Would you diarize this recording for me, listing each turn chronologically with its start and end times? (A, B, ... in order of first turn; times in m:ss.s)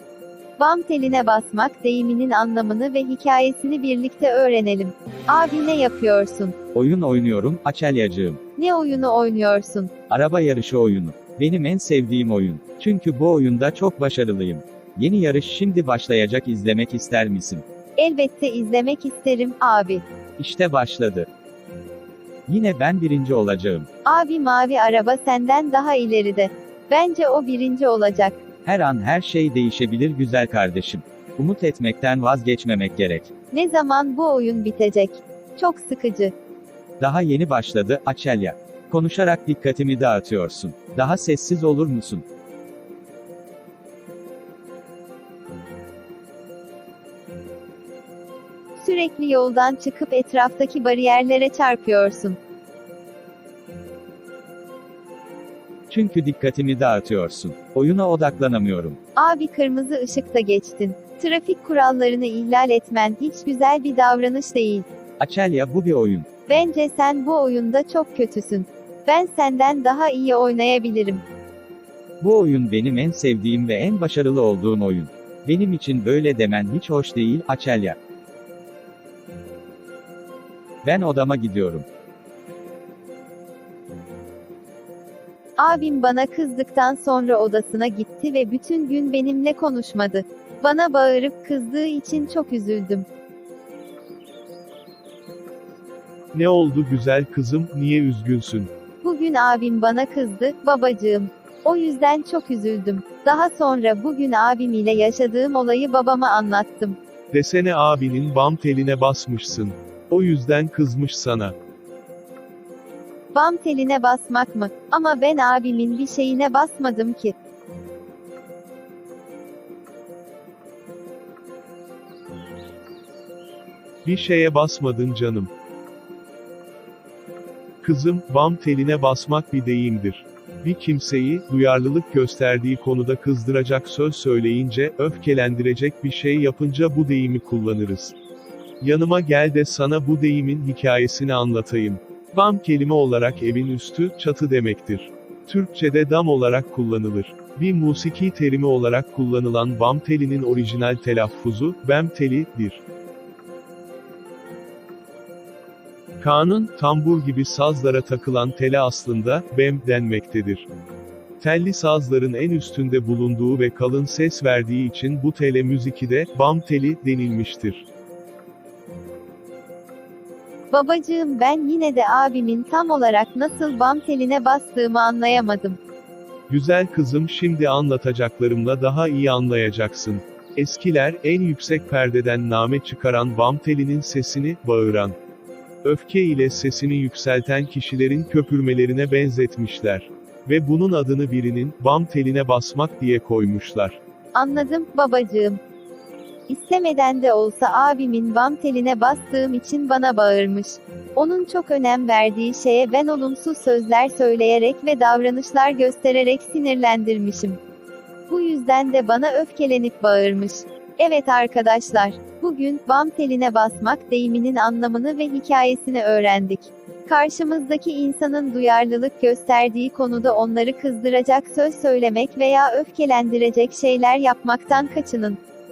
0:00.6-0:06.6 A
0:06.7-0:08.4 B
0:08.6-0:09.9 A
0:10.1-0:17.6 B
0:18.0-0:20.0 A
0:20.4-0:21.3 B
0:22.5-0:23.9 B
0:24.0-0:28.4 A
0:28.6-0:33.3 B
0:33.5-0:36.3 A
0:37.0-0:42.2 B
0:48.8-0:52.4 A
0:55.9-0:59.0 B
0:59.2-1:04.9 A
1:05.2-1:06.3 B
1:06.5-1:11.2 A
1:12.2-1:18.0 B
1:20.8-1:21.9 B
1:25.6-1:33.1 A
1:36.3-1:38.7 C
1:39.0-1:47.0 A
1:47.3-1:51.6 C
1:53.3-1:57.4 A
2:04.0-2:05.5 C
2:07.8-2:18.2 C
2:18.8-2:32.8 C
2:36.2-2:40.7 C
2:41.4-2:47.9 C
2:50.7-2:55.8 A
2:56.5-3:05.2 C
3:05.8-3:14.0 C
3:14.3-3:15.6 A
3:16.5-3:27.6 A
3:28.3-3:45.4 A